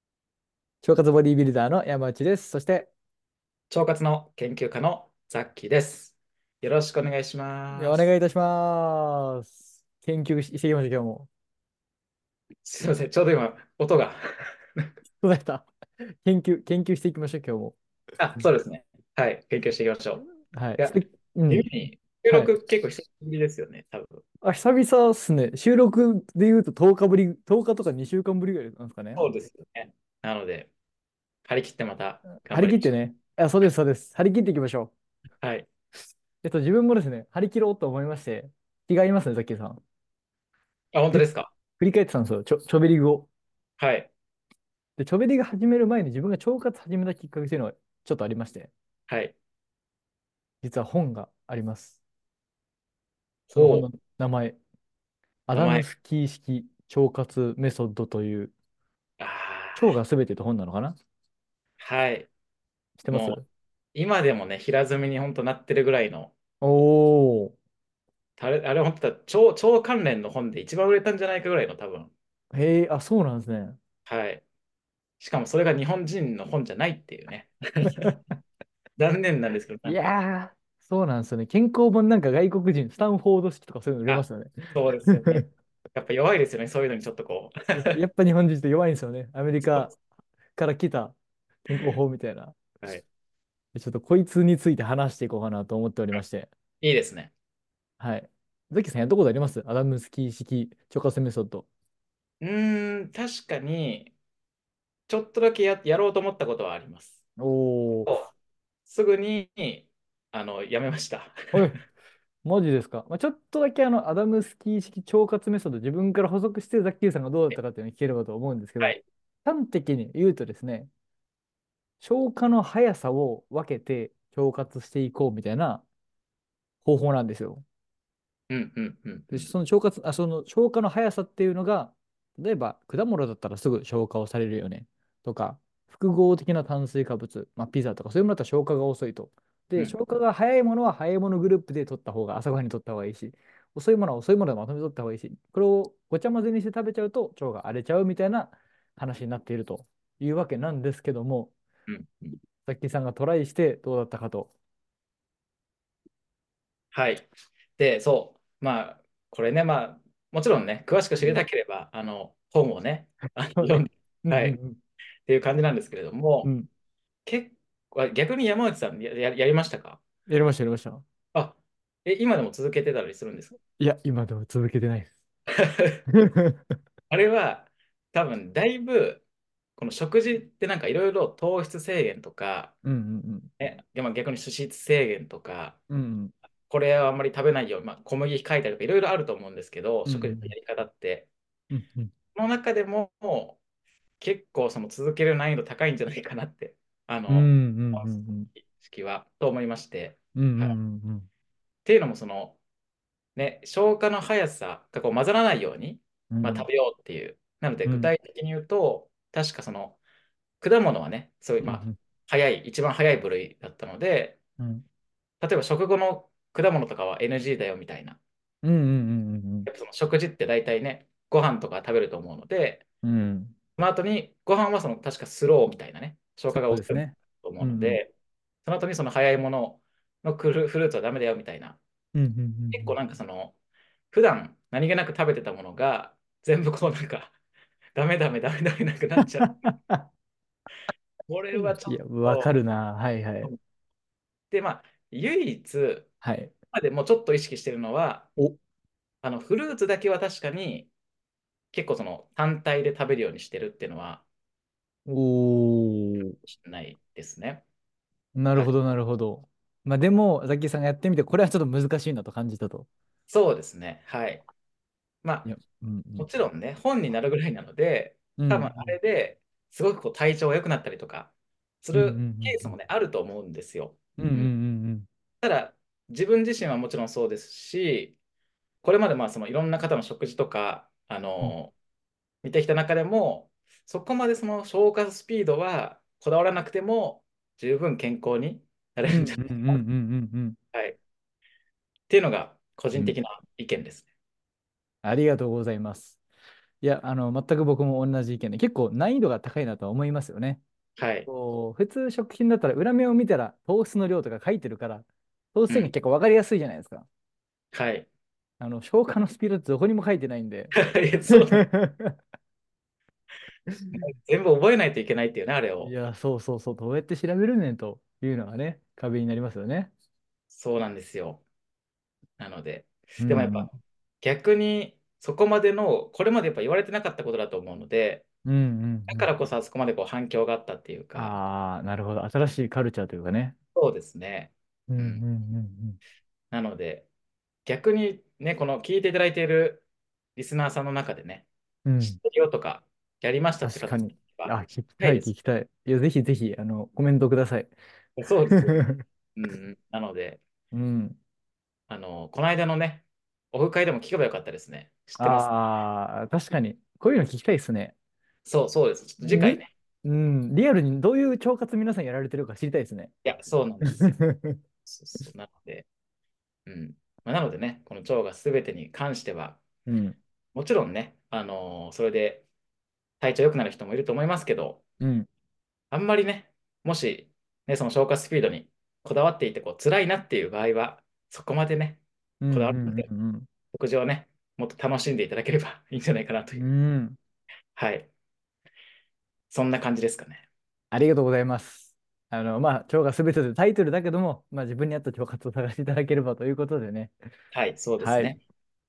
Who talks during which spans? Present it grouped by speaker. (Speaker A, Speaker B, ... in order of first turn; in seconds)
Speaker A: 0.8-2.9, 7.8-11.3, 15.2-17.8, 20.5-21.7, 24.4-29.3, 32.4-34.9, 36.4-39.8, 41.8-43.3, 45.0-48.7, 50.6-52.0, 53.5-54.6, 55.5-58.5, 59.8-61.0, 63.0-63.5, 66.6-67.5, 72.5-73.8, 77.9-78.2, 79.8-85.5, 87.8-90.0, 90.5-92.6, 93.7-96.5, 98.0-101.7, 107.4-108.1, 111.5-111.8, 112.4-120.9, 122.0-125.8, 126.8-127.6, 129.3-151.5, 152.7-154.5, 163.6-164.8, 170.3-171.1, 173.8-175.1, 176.1-176.8, 182.8-183.5, 185.9-186.3, 190.1-190.5, 191.7-192.1, 197.3-198.5, 200.3-201.3, 206.3-206.7, 207.9-208.1, 211.6-212.0, 214.6-214.8, 218.6-219.7, 223.0-223.6, 226.5-228.0, 232.2-232.9, 239.4-240.1, 241.5-243.5, 246.2-246.5, 255.1-256.4, 258.4-262.9, 265.4-266.3, 268.4-269.0, 271.9-272.7, 274.2-275.1, 289.1-290.6, 295.0-296.2, 296.8-300.6, 301.3-307.1, 308.6-310.8, 311.3-312.1, 313.7-314.0, 315.8-319.9, 323.2-323.7, 328.5-329.3, 331.1-333.6, 334.9-336.0, 341.9-342.2, 343.6-347.7, 348.6-349.0, 350.7-351.2, 355.2-357.9, 359.2-363.1, 363.8-364.6, 369.9-370.2, 375.0-375.3, 382.4-383.5, 386.6-387.2, 390.9-397.1, 398.0-398.4
Speaker B: 3.7-8.1, 12.7-14.2, 18.2-24.2, 29.1-30.7, 31.5-32.9, 35.4-35.7, 40.9-41.5, 43.8-44.1, 49.1-49.4, 53.5-53.9, 55.5-55.9, 59.2-60.0, 61.8-62.3, 63.1-63.4, 63.9-66.3, 68.4-72.1, 74.1-74.4, 75.2-78.1, 79.0-80.0, 84.1-88.0, 89.6-90.0, 96.8-97.3, 102.4-104.1, 105.1-107.2, 108.1-108.3, 108.9-111.6, 128.5-129.5, 151.9-152.4, 156.9-164.6, 165.3-166.5, 167.3-170.0, 171.3-173.6, 175.6-176.0, 177.1-179.2, 179.8-182.8, 183.6-185.8, 186.7-191.3, 192.3-193.6, 194.2-200.8, 201.8-202.6, 203.4-210.0, 210.6-214.4, 215.4-218.2, 219.7-222.8, 223.8-228.1, 228.7-231.8, 232.7-233.6, 234.1-237.3, 237.9-239.6, 241.3-242.5, 244.5-246.1, 246.7-248.3, 249.2-250.9, 251.7-254.2, 256.5-257.6, 263.3-264.5, 265.2-265.5, 266.2-274.5, 275.4-278.1, 278.8-281.7, 282.4-289.8, 292.1-294.1, 301.0-301.3, 307.7-308.1, 310.7-311.7, 313.9-315.9, 320.5-321.4, 322.4-328.2, 329.1-331.4, 333.8-335.2, 336.5-337.1, 337.7-339.8, 340.4-341.5, 342.0-345.3, 348.2-348.8, 349.4-350.4, 351.9-355.5, 358.4-359.7, 363.2-364.1, 364.9-365.9, 366.7-369.6, 370.6-372.5, 373.2-374.8, 375.9-383.1, 383.7-386.6, 387.8-388.1, 389.5-390.5, 397.5-398.4